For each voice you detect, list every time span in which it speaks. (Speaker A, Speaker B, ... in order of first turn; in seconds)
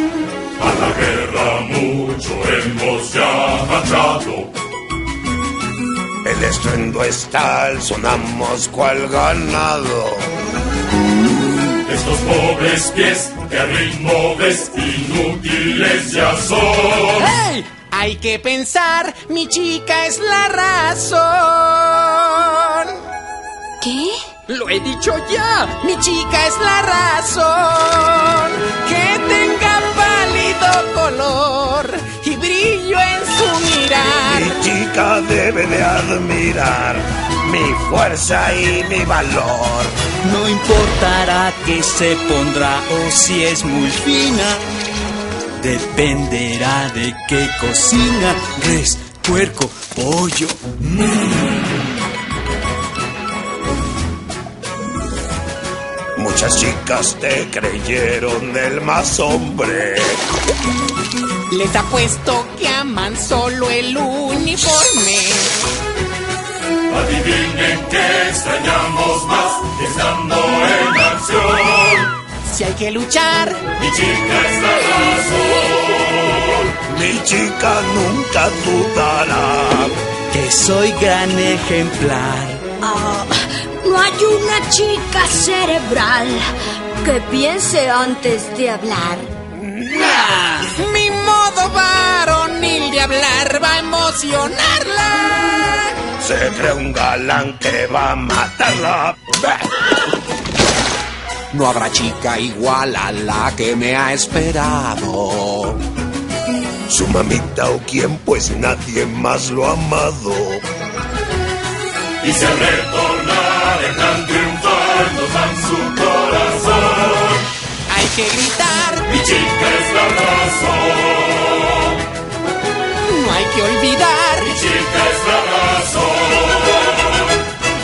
Speaker A: 0.6-4.5, 11.8-17.1, 66.9-72.1, 73.8-76.7, 112.2-117.4, 119.1-121.9, 124.6-127.1
Speaker B: 6.2-10.3, 34.2-39.9, 56.1-60.2, 76.9-80.0, 89.6-90.4, 96.2-99.7, 106.9-110.6
Speaker C: 17.2-23.0, 24.5-34.6, 61.5-65.7, 72.4-73.7, 90.5-95.9, 117.9-119.1, 123.0-124.6
Speaker D: 40.2-44.6, 45.6-51.3, 80.3-82.7
Speaker E: 82.8-86.4, 87.0-89.1
Speaker F: 101.5-105.8